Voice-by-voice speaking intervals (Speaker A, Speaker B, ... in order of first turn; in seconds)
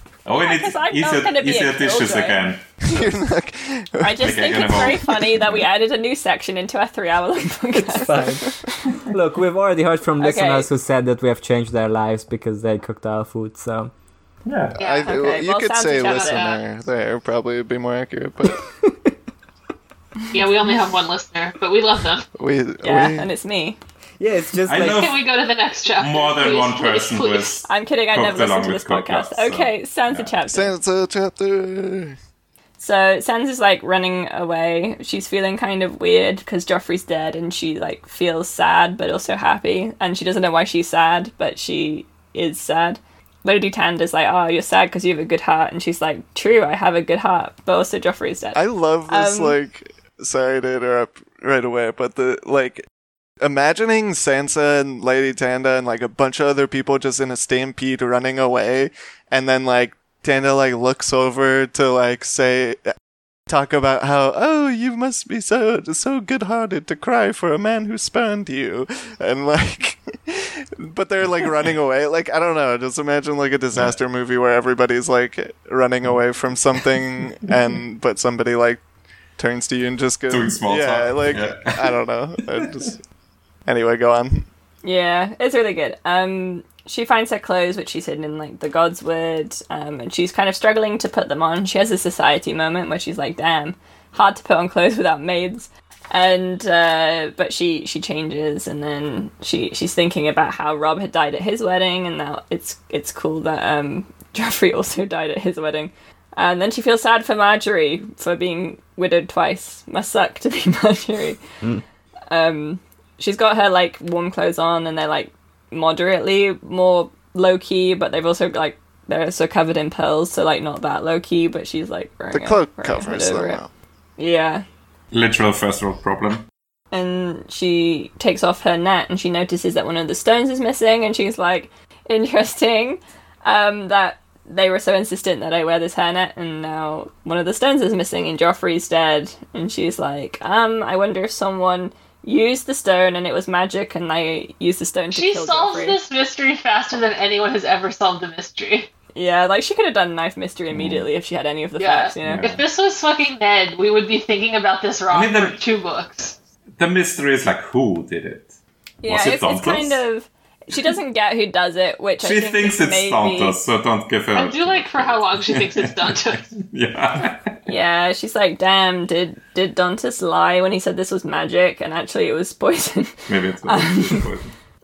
Speaker A: 0.2-2.6, 4.2-5.6, 14.4-14.8, 24.6-25.3, 26.0-30.3, 80.3-82.0, 125.1-126.4, 150.7-151.1, 152.2-152.6, 155.1-155.6, 156.8-160.0, 162.2-167.6, 173.3-174.5
Speaker B: 0.4-2.6, 4.0-8.3, 10.2-10.7, 15.0-16.5, 22.8-23.8, 27.6-30.7, 32.8-49.5, 84.8-111.4, 112.3-123.6, 124.2-124.6, 126.9-146.0, 149.1-152.5, 159.0-163.6, 167.7-174.3
Speaker C: 2.8-5.2, 14.8-18.7, 22.4-23.3, 30.5-32.1, 48.5-52.8, 53.4-62.9, 63.5-78.8, 79.4-83.0, 83.7-84.5, 122.3-123.7
Speaker D: 7.7-13.9, 18.8-19.1, 24.2-25.2
Speaker E: 14.8-15.2, 16.0-16.6, 20.3-22.3, 24.9-27.6, 145.1-148.9, 151.8-156.3, 164.3-166.4